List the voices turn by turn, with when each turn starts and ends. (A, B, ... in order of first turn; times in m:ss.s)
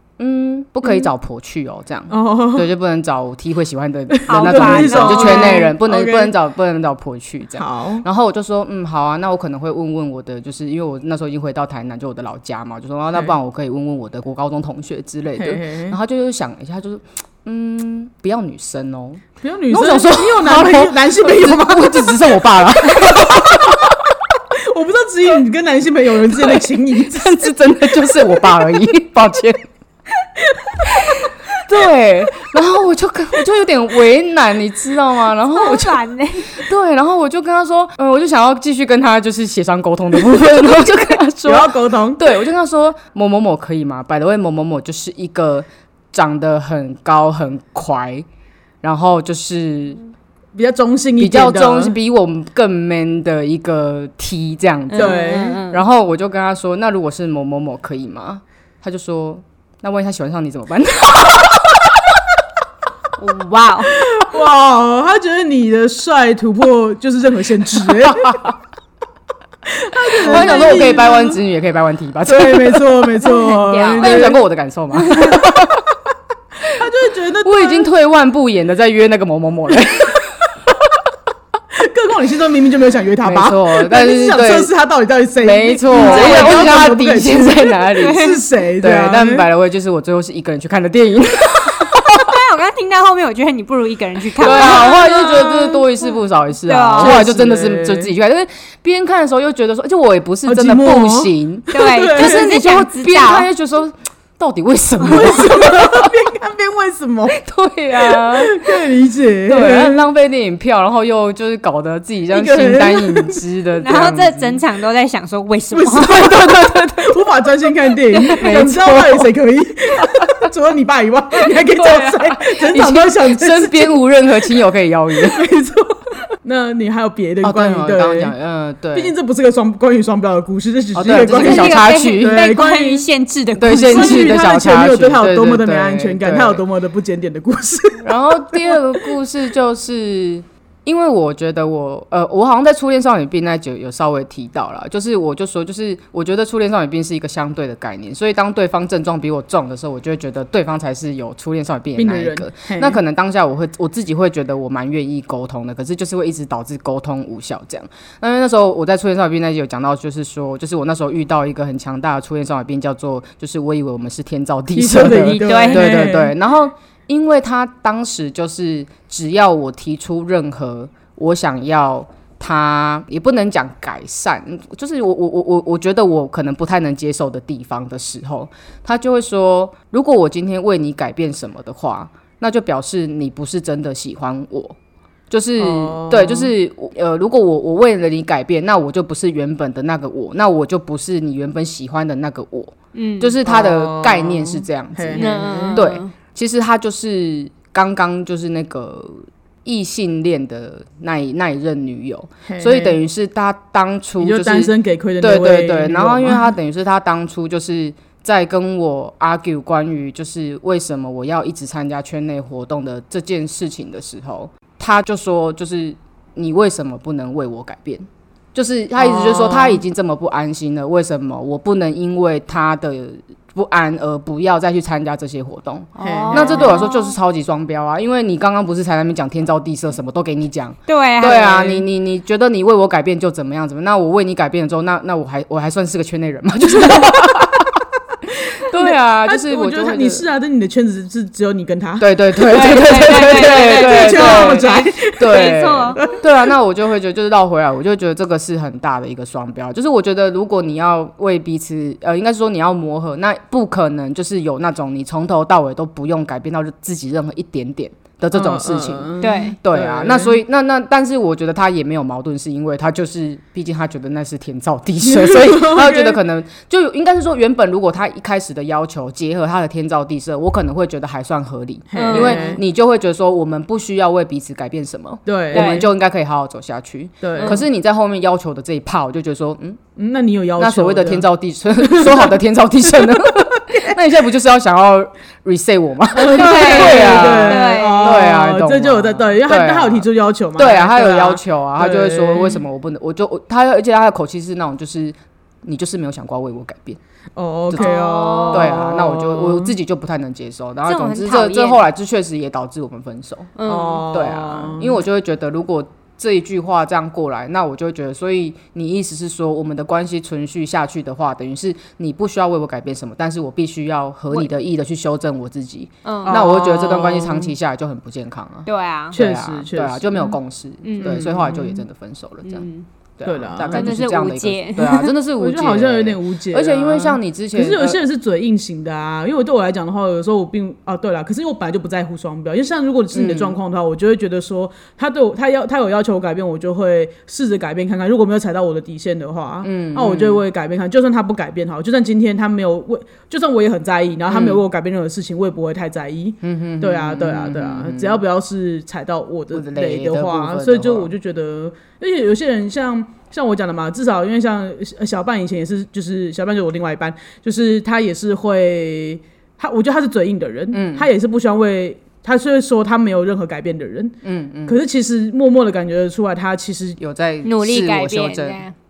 0:00.2-0:24.0 A
0:02.1-0:02.7 B
0:04.1-0:06.3 B
0:04.3-0:05.7 C
0:07.6-0:08.0 B
0:15.4-0:16.0 B
0:19.4-0:22.2 B
0:22.9-0:23.8 B
0:24.6-0:27.5 B
0:26.3-0:29.6 A
0:30.5-0:31.3 B
0:31.1-0:48.2 A
0:35.5-0:36.6 C
0:41.4-0:42.2 B
0:48.8-0:50.0 A
0:50.5-0:52.0 B
0:51.2-1:02.2 A
0:54.9-0:55.8 C
0:55.0-0:55.6 B
1:03.2-1:03.9 C
1:03.9-1:08.4 B
1:09.7-1:11.4 B
1:10.2-1:13.1 A
1:10.3-1:11.0 C
1:12.2-1:14.4 B
1:13.2-1:14.3 C
1:14.0-1:15.8 A
1:15.0-1:15.4 C
1:16.6-1:17.9 B
1:17.4-1:20.3 A
1:21.7-1:29.5 B
1:23.2-1:24.7 A
1:25.4-1:32.3 A
1:25.9-1:26.6 C
1:28.0-1:28.4 C
1:31.9-1:36.1 C
1:34.4-1:46.1 A
1:36.6-1:37.2 C
1:37.0-1:38.1 B
1:40.4-1:42.5 B
1:41.7-1:43.5 C
1:45.0-1:47.4 B
1:47.4-1:48.7 A
1:48.0-1:50.0 B
1:49.5-1:54.6 A
1:52.3-1:53.4 B
1:53.8-1:56.3 C
1:55.7-2:03.9 B
1:56.1-1:57.1 A
1:58.3-1:59.3 A
2:01.5-2:05.5 A
2:05.2-2:08.3 B
2:07.4-2:09.1 A
2:08.9-2:13.0 B
2:10.9-2:12.4 A
2:11.3-2:14.4 C
2:13.6-2:16.6 A
2:13.6-2:18.8 B
2:18.0-3:04.8 A
2:32.0-2:33.0 B
2:44.7-2:46.3 B
2:45.4-2:46.1 C
3:05.3-3:57.8 A
3:05.6-3:06.5 B
3:12.9-3:13.3 C
3:13.4-3:15.8 B
3:15.2-3:16.1 C
3:22.5-3:23.0 B
3:24.2-3:26.5 B
3:39.0-3:39.8 C
3:46.0-3:47.1 C
3:46.0-3:46.8 B
3:50.9-3:51.8 C
3:58.6-4:00.2 A
3:58.7-4:02.1 B
4:02.0-4:19.1 A
4:02.4-4:06.0 C
4:03.0-4:06.2 B
4:18.3-4:20.4 B
4:19.2-4:19.6 C
4:19.6-4:39.8 A
4:25.0-4:26.2 B
4:31.9-4:32.6 B
4:31.9-4:32.6 C
4:35.3-4:35.9 B
4:35.5-4:35.9 C
4:37.2-4:37.6 B
4:37.4-4:37.6 C
4:40.0-4:41.2 B
4:40.6-4:57.0 A
4:41.8-4:42.3 B
4:43.0-4:43.8 B
4:46.1-4:52.6 B
4:46.2-4:48.2 C
4:57.4-4:59.7 B
4:57.8-4:58.7 C
4:58.5-5:03.5 A
5:00.9-5:01.8 C
5:03.6-5:04.0 C
5:03.6-5:05.0 B
5:04.1-5:22.6 A
5:16.0-5:16.4 C
5:16.2-5:17.5 B
5:18.6-5:19.2 C
5:19.1-5:20.3 B
5:20.8-5:21.2 C
5:21.0-5:21.8 B
5:22.4-5:22.9 C
5:23.2-5:28.0 A
5:23.2-5:23.9 B
5:23.7-5:25.1 C
5:25.4-6:07.0 B
5:33.1-5:33.6 A
5:39.6-5:40.4 A
5:44.3-5:44.6 A
5:46.4-5:48.2 A
5:49.5-5:51.1 A
6:00.7-6:01.1 A
6:04.2-6:04.8 A
6:07.0-6:08.6 A
6:07.4-6:08.7 C